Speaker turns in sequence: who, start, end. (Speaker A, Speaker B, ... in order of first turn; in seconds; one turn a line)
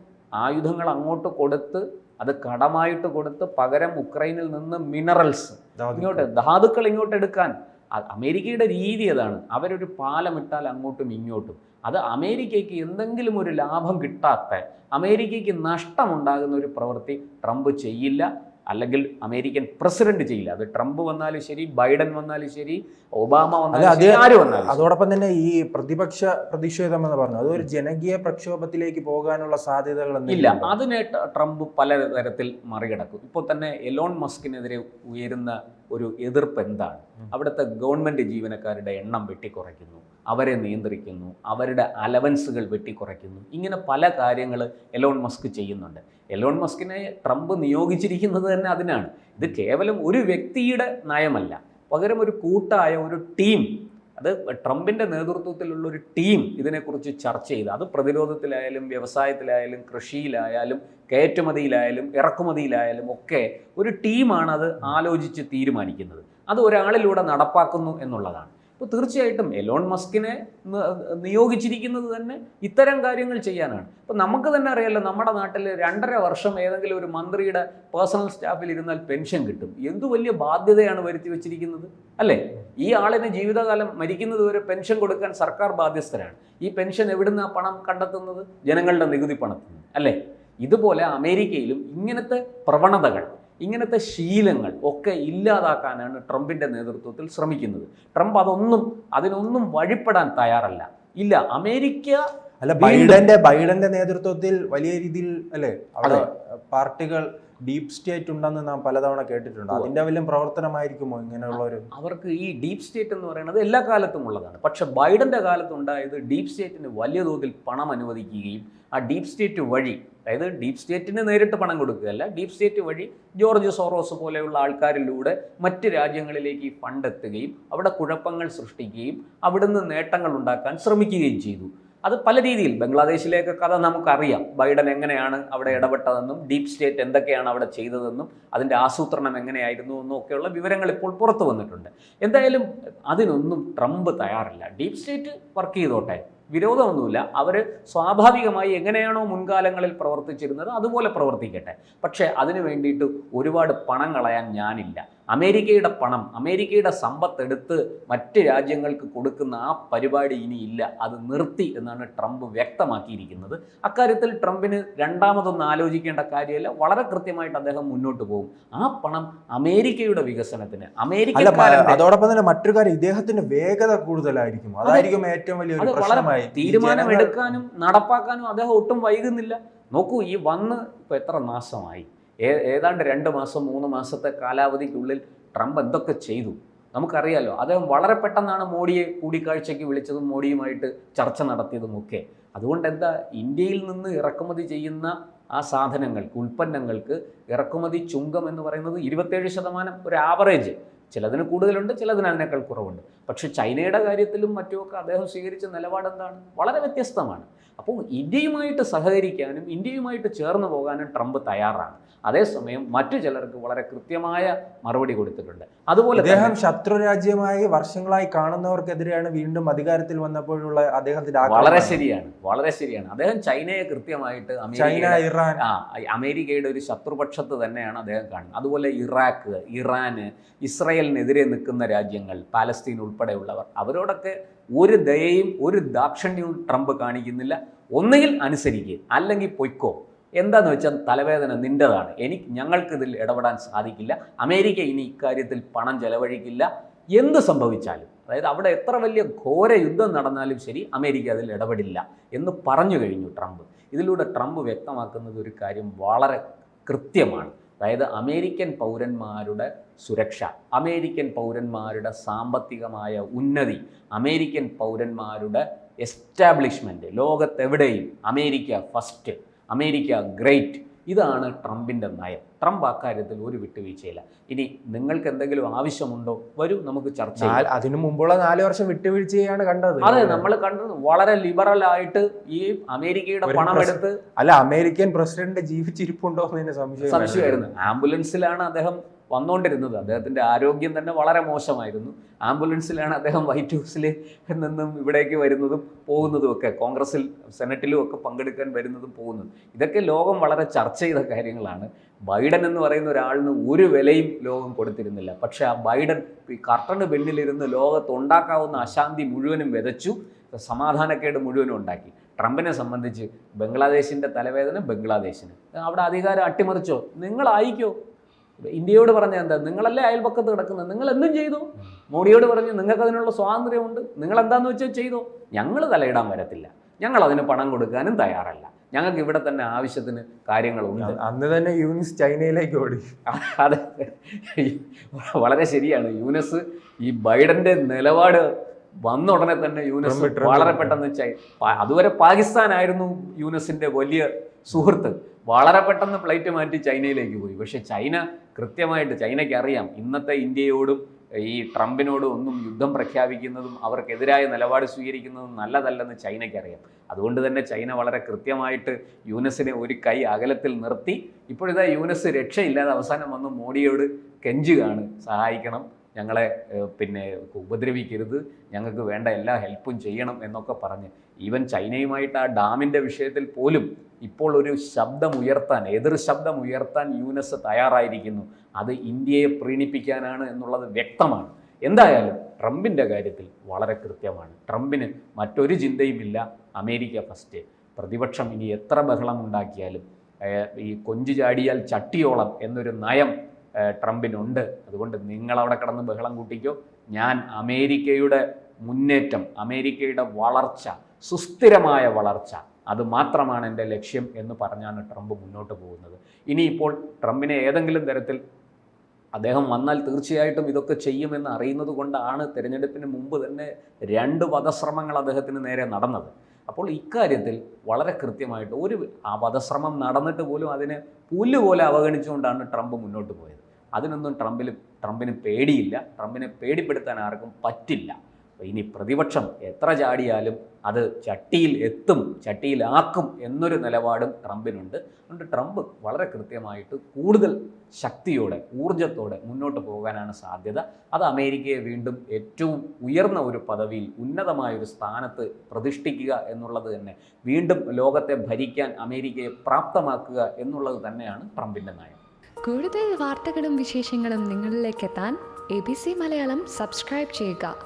Speaker A: 0.4-24.8
Speaker B: 5.8-6.3
Speaker B: 23.7-30.7
Speaker A: 30.3-102.2
Speaker B: 102.6-111.8
Speaker A: 102.8-103.2
Speaker A: 111.5-172.0
Speaker B: 171.3-177.5
Speaker A: 175.8-216.6
Speaker B: 216.1-222.0
Speaker A: 221.4-277.6
Speaker B: 224.7-225.6
Speaker B: 277.4-280.4
Speaker A: 280.0-284.2
Speaker B: 283.4-287.7
Speaker A: 287.0-317.9
Speaker A: 318.7-331.2
Speaker B: 331.0-333.1
Speaker A: 333.3-338.4
Speaker A: 339.0-408.4
Speaker B: 340.0-341.0
Speaker A: 409.3-452.2
Speaker C: 452.7-457.7